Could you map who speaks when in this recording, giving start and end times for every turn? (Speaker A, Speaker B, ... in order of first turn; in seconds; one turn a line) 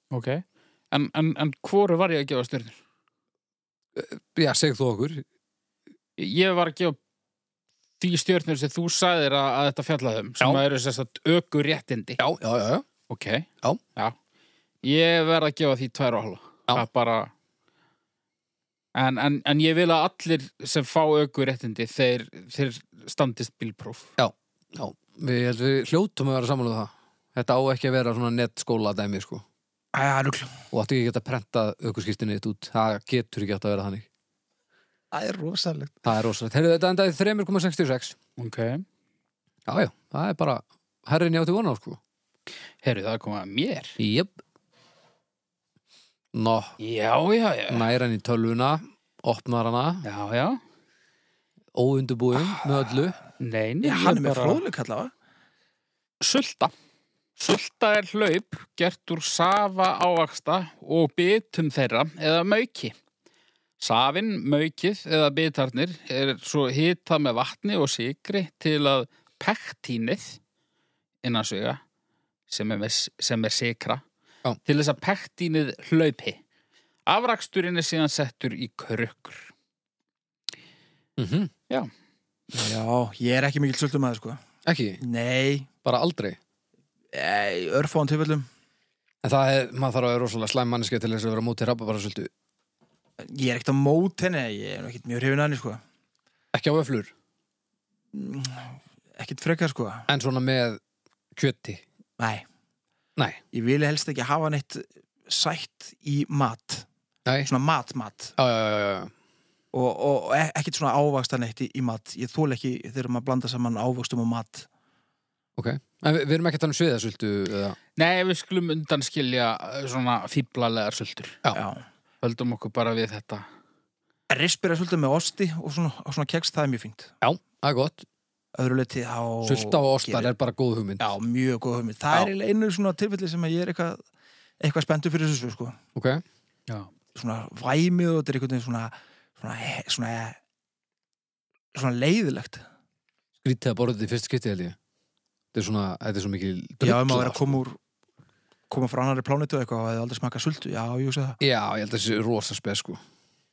Speaker A: 0.1-2.8
Speaker B: 3.9-5.2
Speaker A: 6.2-7.0
Speaker A: 8.0-12.2
Speaker B: 12.2-12.8
Speaker A: 13.1-14.2
Speaker A: 14.8-17.3
Speaker A: 18.9-24.1
Speaker B: 24.2-29.4
Speaker C: 29.9-30.6
Speaker B: 30.7-34.0
Speaker C: 35.1-36.1
Speaker B: 36.0-38.1
Speaker A: 38.4-38.8
Speaker B: 39.7-42.0
Speaker A: 42.8-44.0
Speaker B: 44.0-44.4
Speaker B: 46.3-46.7
Speaker A: 46.8-47.9
Speaker B: 47.7-50.0
Speaker A: 50.0-50.6
Speaker B: 51.7-53.2
Speaker A: 53.4-54.6
Speaker C: 53.8-55.1
Speaker A: 56.2-56.7
Speaker A: 57.4-62.9
Speaker A: 63.8-70.4
Speaker A: 71.2-71.8
Speaker A: 72.5-74.0
Speaker A: 74.6-76.4
Speaker A: 77.1-79.5
Speaker B: 81.2-81.5
Speaker C: 82.5-84.4
Speaker B: 84.7-85.0
Speaker C: 85.0-85.7
Speaker B: 85.8-86.4
Speaker C: 87.1-88.5
Speaker B: 89.2-92.3
Speaker C: 93.2-95.8
Speaker B: 96.5-97.1
Speaker C: 98.1-100.1
Speaker B: 100.1-100.8
Speaker B: 101.3-101.8
Speaker C: 102.2-102.4
Speaker C: 103.5-106.9
Speaker C: 107.5-108.3
Speaker B: 108.4-109.1
Speaker C: 109.7-114.7
Speaker B: 115.6-117.8
Speaker A: 118.0-121.4
Speaker C: 121.5-121.8
Speaker A: 122.2-123.4
Speaker C: 124.3-127.1
Speaker B: 127.2-128.0
Speaker C: 128.5-130.3
Speaker B: 129.4-131.1
Speaker C: 131.0-134.0
Speaker C: 134.6-135.8
Speaker B: 135.9-136.2
Speaker C: 137.1-140.4
Speaker C: 141.7-142.6
Speaker B: 143.4-144.8
Speaker B: 145.5-147.6
Speaker C: 146.8-147.8
Speaker C: 148.7-151.4
Speaker B: 151.4-153.0